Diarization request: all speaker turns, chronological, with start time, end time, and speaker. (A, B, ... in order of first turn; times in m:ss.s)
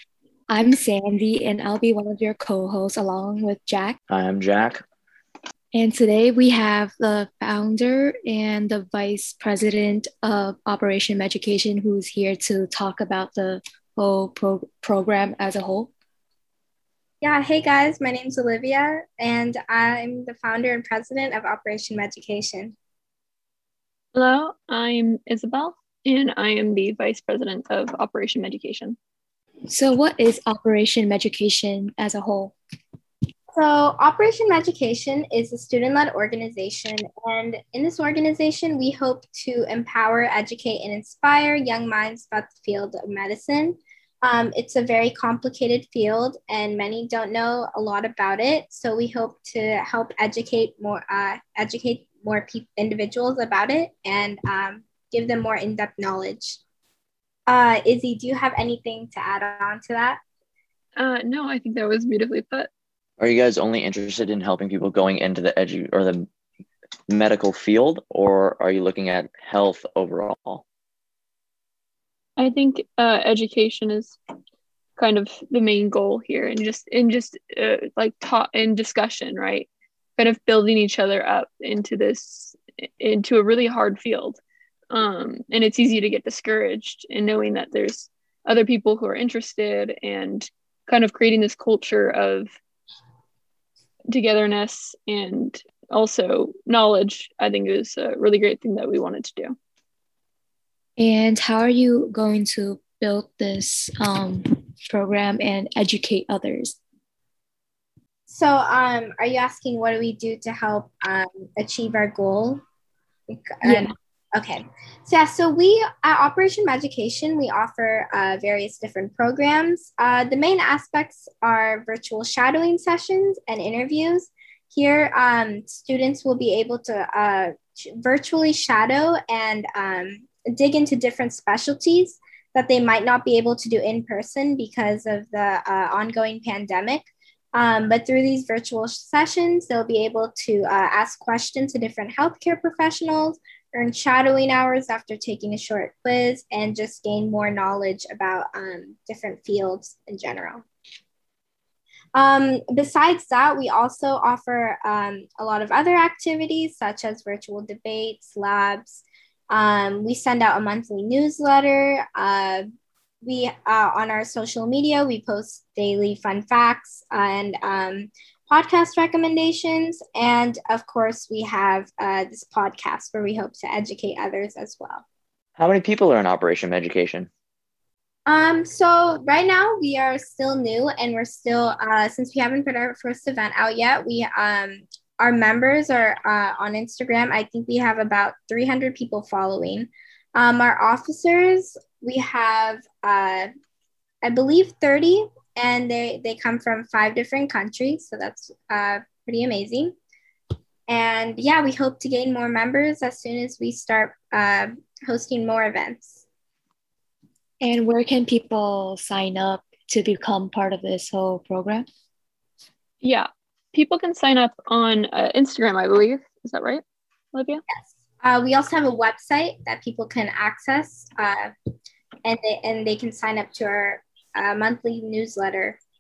0:00.5-0:04.0 A
0:04.1-0:04.8 B
0:05.7-0:15.9 A
0:17.2-0:22.8 C
0:24.2-0:29.0 D
0:29.7-0:32.5 A
0:33.5-0:56.6 C
0:57.5-1:00.2 C
1:01.0-1:02.7 D
1:03.2-1:06.3 B
1:07.1-1:10.6 B
1:12.4-1:14.2 D
1:15.0-1:24.4 D
1:24.9-1:32.5 D
1:34.1-1:39.6 D
1:41.0-1:46.8 A
1:48.3-1:52.6 C
1:53.3-2:30.6 C
1:53.6-1:53.9 A
2:32.2-2:42.7 C
2:43.2-2:55.0 C
2:55.6-2:57.3 B
2:58.3-3:13.5 C
3:14.2-3:20.0 C
3:20.9-3:26.2 C
3:27.6-3:31.9 A
3:33.0-3:37.6 D
3:37.7-3:41.5 C
3:42.2-3:45.8 C